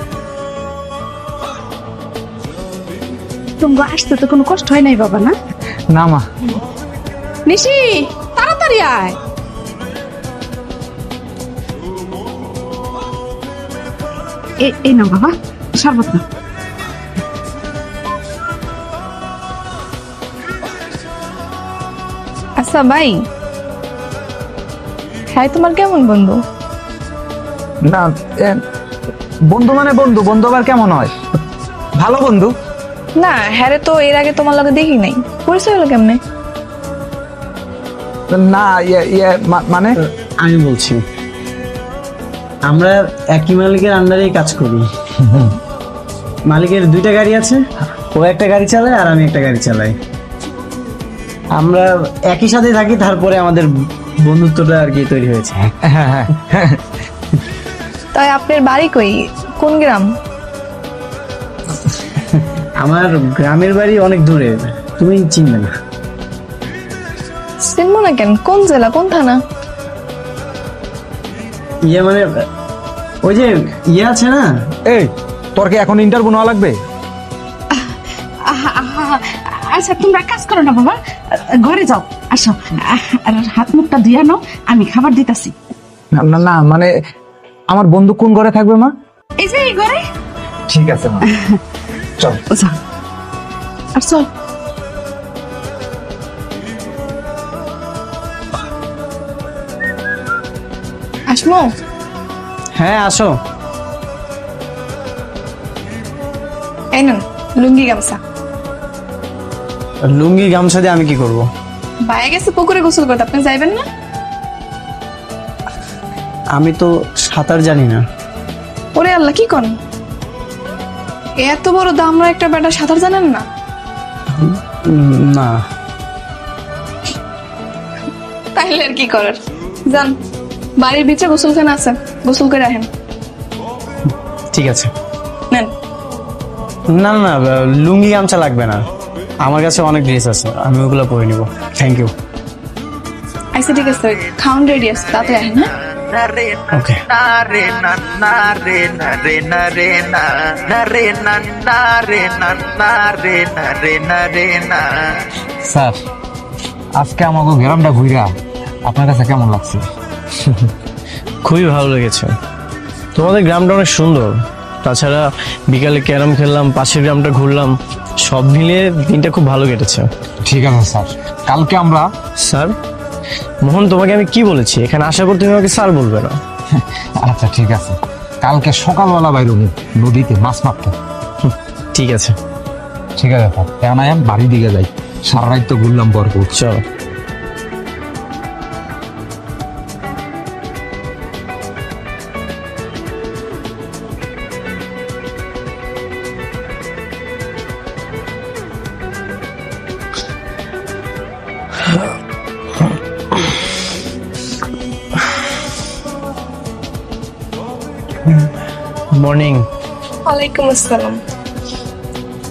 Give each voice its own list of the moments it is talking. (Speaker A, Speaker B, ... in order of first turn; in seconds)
Speaker A: 3.6-5.4, 7.5-9.2, 14.6-16.2, 77.8-85.5, 89.4-90.0, 92.5-92.8, 94.0-94.3
Speaker B: 5.9-6.2, 27.9-28.6, 29.5-31.1, 32.0-32.5, 38.3-40.0, 55.9-56.8, 74.9-76.8, 86.2-86.9, 87.7-88.9, 90.7-91.3, 155.7-155.9, 157.0-158.3, 158.9-159.8, 170.4-172.1, 176.8-180.9, 183.2-186.6
Speaker C: 22.6-23.2, 25.3-26.4, 33.2-36.2, 58.1-60.1, 67.6-69.4, 101.3-101.7, 107.0-108.2, 112.1-113.8, 119.0-119.7, 121.4-123.4, 128.6-130.1, 130.8-132.9, 143.5-145.7, 210.3-211.2
Speaker D: 40.1-41.0, 42.7-44.9, 46.5-47.6, 48.1-49.9, 51.6-55.7, 62.2-65.7, 71.9-72.3, 73.2-74.5, 102.8-103.3, 110.1-111.5, 116.6-118.0, 124.4-125.6, 134.5-134.9, 136.9-138.8, 139.4-142.1, 146.7-147.0, 161.4-162.3, 163.2-170.1, 172.4-172.7, 173.6-176.4, 181.4-182.3, 186.5-186.8, 209.2-209.6
Speaker E: 146.1-155.2